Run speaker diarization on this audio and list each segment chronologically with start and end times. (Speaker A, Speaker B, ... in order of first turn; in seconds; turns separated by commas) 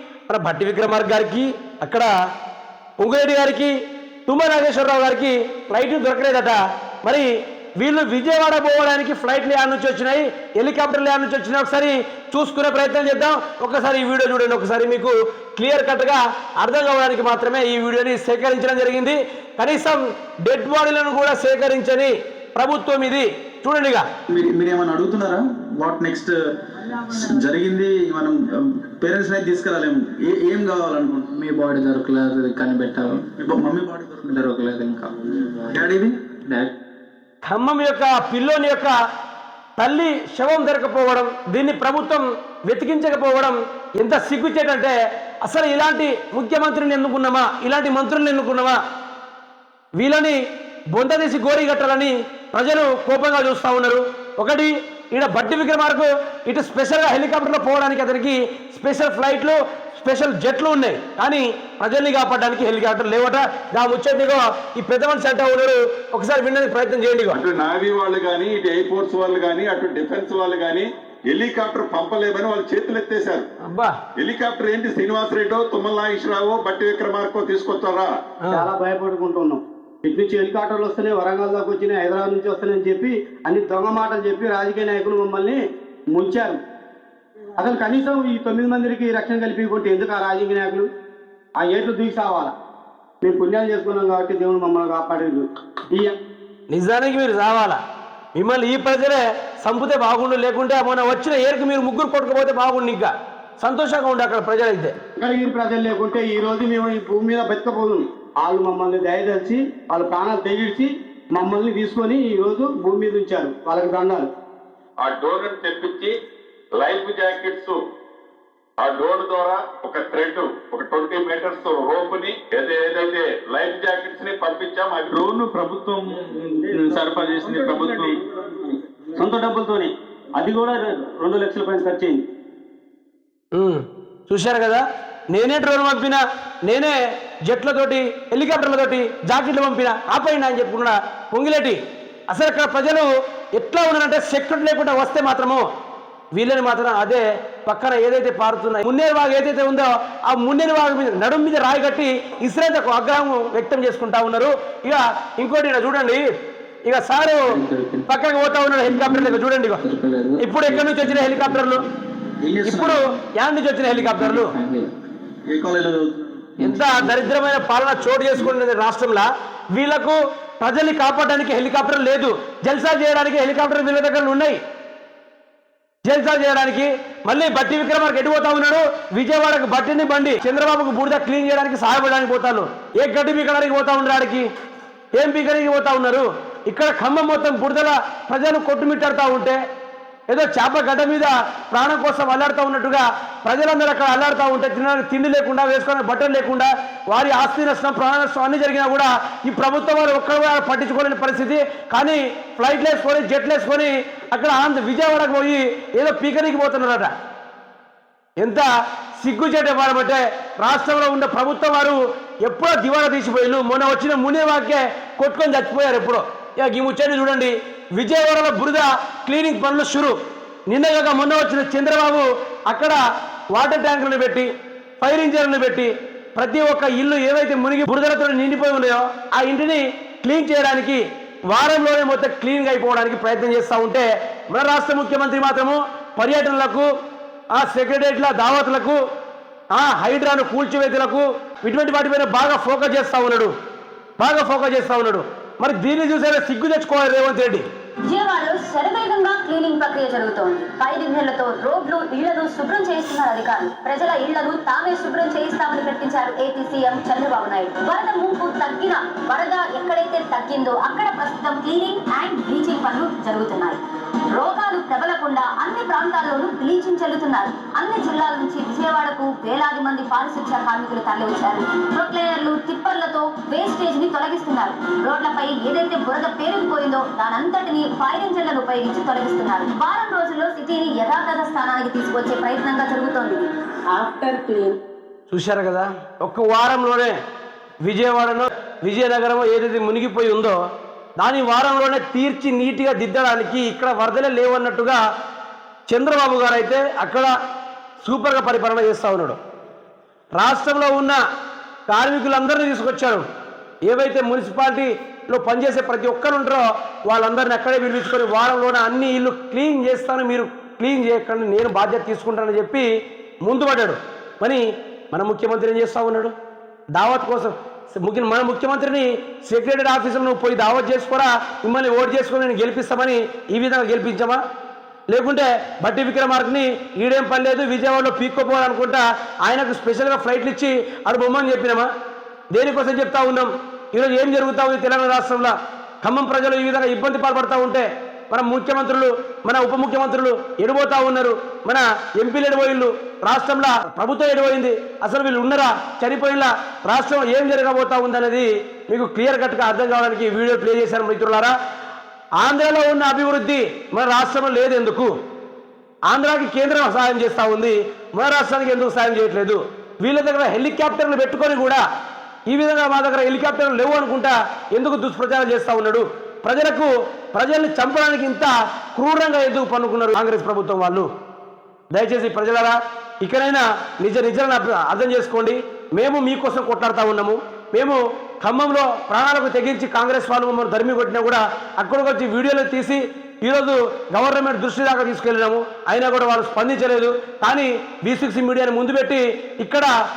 Speaker A: 0.3-2.1, Speaker A: 3.0-24.1, Speaker B: 24.3-31.4, Speaker C: 31.3-33.3, Speaker B: 33.4-34.4, Speaker C: 34.2-35.8, Speaker B: 35.6-36.1, Speaker C: 36.5-36.7, Speaker A: 37.5-38.9, Speaker A: 39.8-48.8, Speaker A: 50.0-50.4, Speaker A: 50.9-67.4, Speaker D: 67.3-73.5, Speaker A: 73.6-74.0, Speaker D: 74.2-78.2, Speaker E: 78.5-86.6, Speaker E: 87.6-90.9, Speaker E: 91.6-92.5, Speaker E: 93.2-96.1, Speaker A: 96.7-97.8, Speaker A: 98.3-104.9, Speaker E: 105.2-114.3, Speaker D: 115.0-116.2, Speaker D: 116.8-117.8, Speaker D: 118.8-125.3, Speaker E: 126.5-132.3, Speaker D: 126.7-128.2, Speaker A: 133.5-141.8, Speaker A: 142.3-145.7, Speaker A: 146.3-156.2, Speaker A: 156.9-159.9, Speaker C: 157.4-158.1, Speaker C: 158.8-161.8, Speaker A: 160.4-161.8, Speaker B: 162.4-163.1, Speaker A: 162.6-164.5, Speaker C: 163.9-164.9, Speaker B: 165.5-166.5, Speaker C: 166.6-167.3, Speaker A: 166.6-174.6, Speaker A: 176.1-184.5, Speaker A: 185.2-189.6, Speaker A: 190.3-207.1, Speaker A: 208.4-220.2, Speaker A: 220.7-223.0, Speaker A: 223.5-236.9, Speaker A: 237.5-239.0, Speaker A: 239.7-243.5, Speaker A: 244.2-247.6, Speaker F: 248.1-263.8, Speaker F: 264.3-284.4, Speaker A: 285.3-287.2, Speaker A: 287.8-290.6, Speaker A: 291.2-295.0, Speaker A: 295.9-297.3, Speaker A: 298.0-299.4, Speaker A: 300.4-301.2, Speaker A: 301.9-303.2, Speaker A: 303.9-312.9, Speaker A: 313.4-316.3, Speaker A: 316.9-324.4, Speaker A: 325.1-331.9, Speaker A: 332.5-351.5, Speaker A: 352.4-355.1, Speaker A: 356.1-361.8, Speaker A: 362.5-371.1, Speaker A: 371.9-389.9